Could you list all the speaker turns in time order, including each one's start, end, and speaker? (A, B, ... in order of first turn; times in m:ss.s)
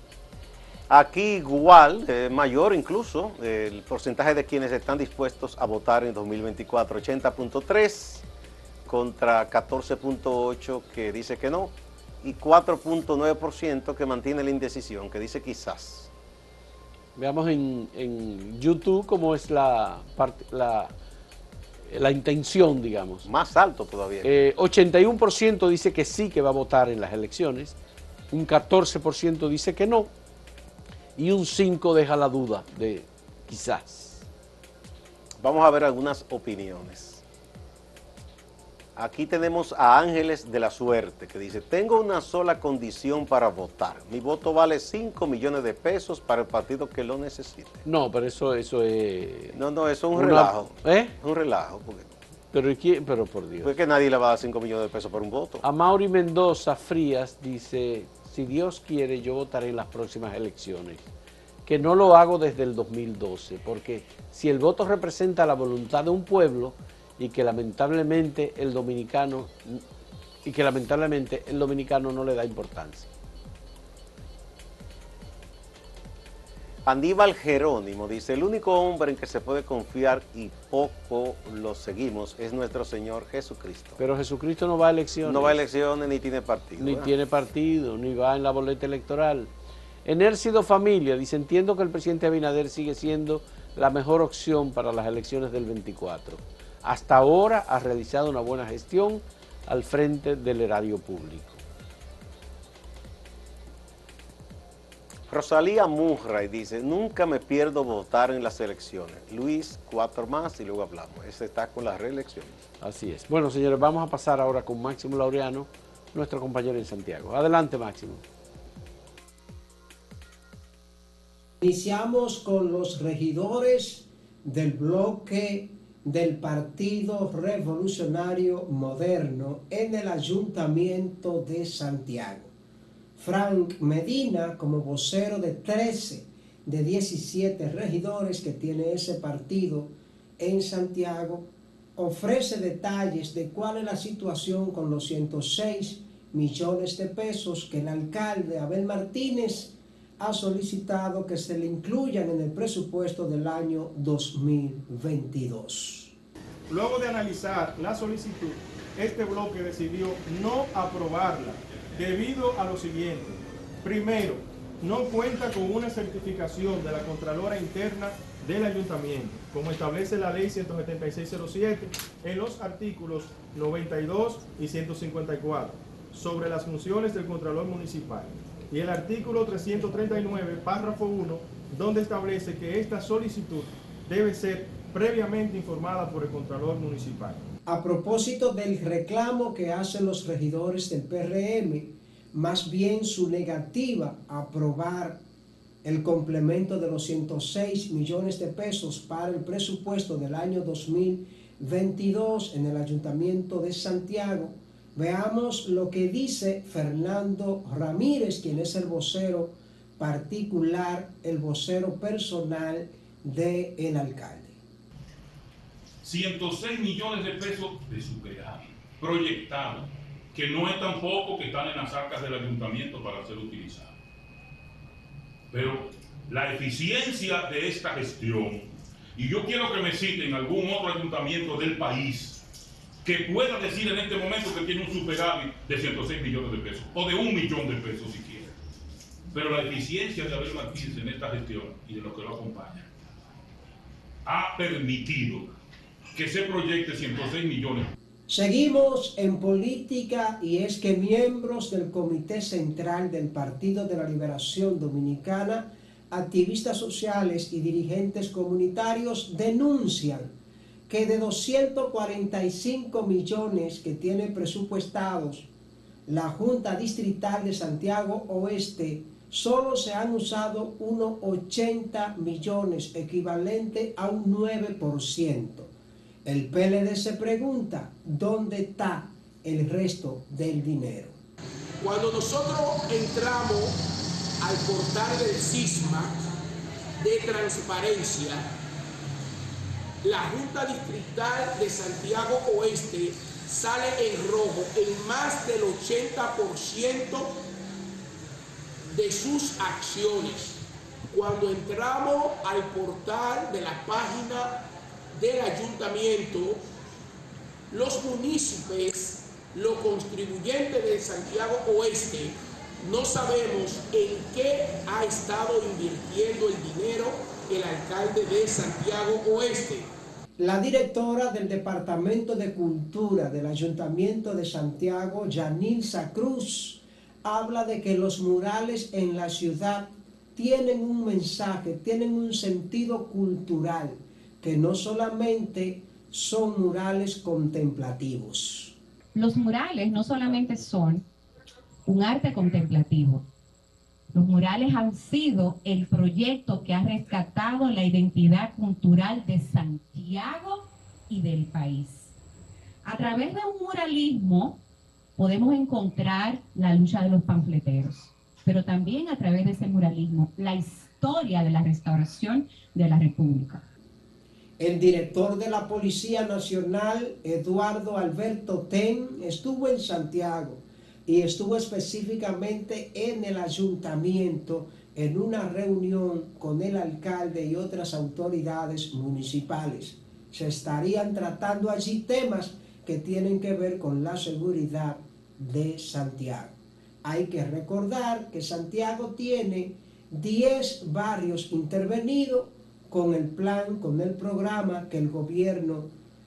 0:00.9-0:08.2 A
0:08.9-0:16.1 A
0:17.2-0:20.9 B
0:21.9-0:23.3 B
0:23.2-0:24.4 A
0:24.2-0:27.8 B
0:28.3-0:30.1 B
0:31.2-0:34.2 B
0:35.4-0:37.2 A
0:39.0-0:47.8 A
0:47.8-0:49.6 B
0:49.5-0:52.1 A
0:50.1-0:51.1 B
0:52.5-0:53.7 B
0:53.6-0:55.6 A
0:55.6-1:01.0 B
1:01.6-1:09.8 B
1:10.4-1:13.1 B
1:16.8-1:24.0 A
1:24.0-1:25.6 B
1:25.2-1:27.1 A
1:26.8-1:29.5 B
1:30.0-1:41.6 B
1:45.3-1:52.6 A
1:52.8-1:58.2 B
2:01.6-2:12.5 C
2:13.2-2:36.1 C
2:36.7-3:07.5 D
3:07.7-3:15.2 C
3:15.8-3:34.6 C
3:36.0-3:44.0 E
3:45.5-3:52.4 E
3:53.0-3:58.6 E
3:59.3-4:02.9 E
4:04.2-4:05.6 E
4:06.1-4:07.9 E
4:08.3-4:20.3 C
4:20.9-4:25.5 C
4:26.1-4:35.7 C
4:36.2-4:41.2 C
4:41.8-4:43.8 F
4:44.4-4:46.2 F
4:47.0-4:48.5 F
4:50.0-4:57.4 F
4:58.9-5:00.6 F
5:01.1-5:04.6 F
5:05.1-5:06.6 F
5:07.7-5:19.9 F
5:20.4-5:38.8 C
5:39.2-5:41.0 G
5:41.9-5:43.2 G
5:44.1-5:52.1 G
5:52.8-5:54.6 G
5:55.2-6:03.6 G
6:04.6-6:35.9 C